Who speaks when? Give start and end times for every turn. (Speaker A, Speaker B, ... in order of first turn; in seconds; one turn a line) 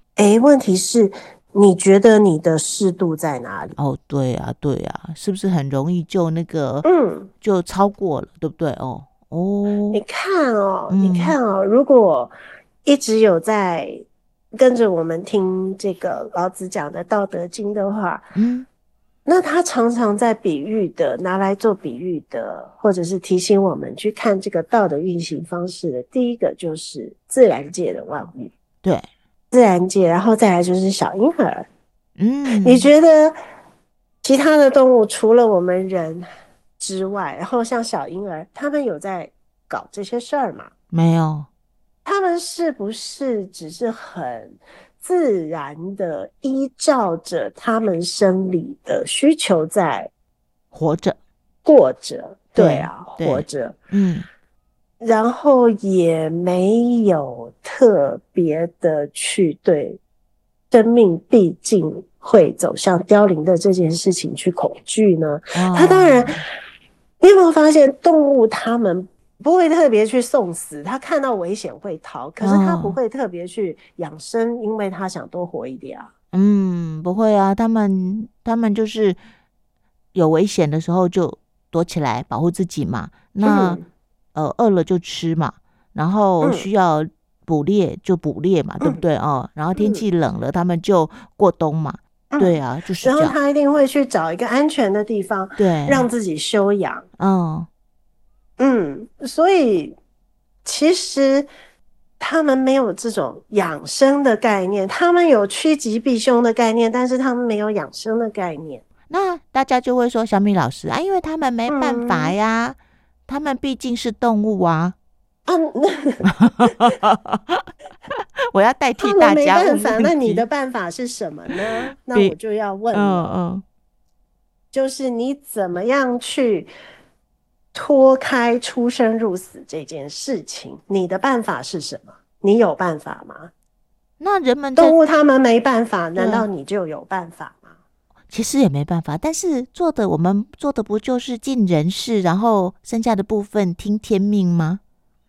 Speaker A: 0.2-3.8
Speaker B: 3.8-6.9
Speaker A: 6.8-7.3
Speaker B: 7.4-10.0
Speaker A: 9.9-12.3
Speaker B: 10.9-11.4
Speaker A: 12.8-14.0
Speaker A: 14.5-18.3
Speaker B: 18.4-18.7
Speaker A: 19.3-28.5
Speaker A: 29.5-31.7
Speaker B: 32.2-32.9
Speaker A: 32.6-33.4
Speaker A: 34.2-36.3
Speaker A: 36.8-40.7
Speaker B: 40.9-41.5
Speaker A: 42.0-50.1
Speaker B: 50.7-51.2
Speaker A: 51.6-53.8
Speaker B: 52.6-54.3
Speaker A: 55.0-60.0
Speaker A: 60.7-66.4
Speaker B: 65.5-66.4
Speaker A: 67.2-76.1
Speaker B: 72.4-73.0
Speaker B: 76.3-79.2
Speaker B: 80.1-83.8
Speaker A: 83.4-83.8
Speaker B: 84.3-93.4
Speaker A: 86.4-86.7
Speaker A: 89.8-90.0
Speaker A: 92.3-97.1
Speaker B: 95.6-96.1
Speaker B: 97.2-97.7
Speaker A: 98.6-100.0
Speaker A: 100.7-101.5
Speaker A: 102.2-108.8
Speaker B: 109.1-115.0
Speaker A: 111.7-112.3
Speaker A: 115.5-116.3
Speaker B: 116.3-117.7
Speaker B: 118.5-120.5
Speaker A: 119.0-123.3
Speaker B: 122.9-123.6
Speaker A: 124.7-126.7
Speaker A: 127.7-133.5
Speaker B: 134.2-135.0
Speaker A: 134.8-137.8
Speaker B: 136.2-136.5
Speaker B: 138.3-144.8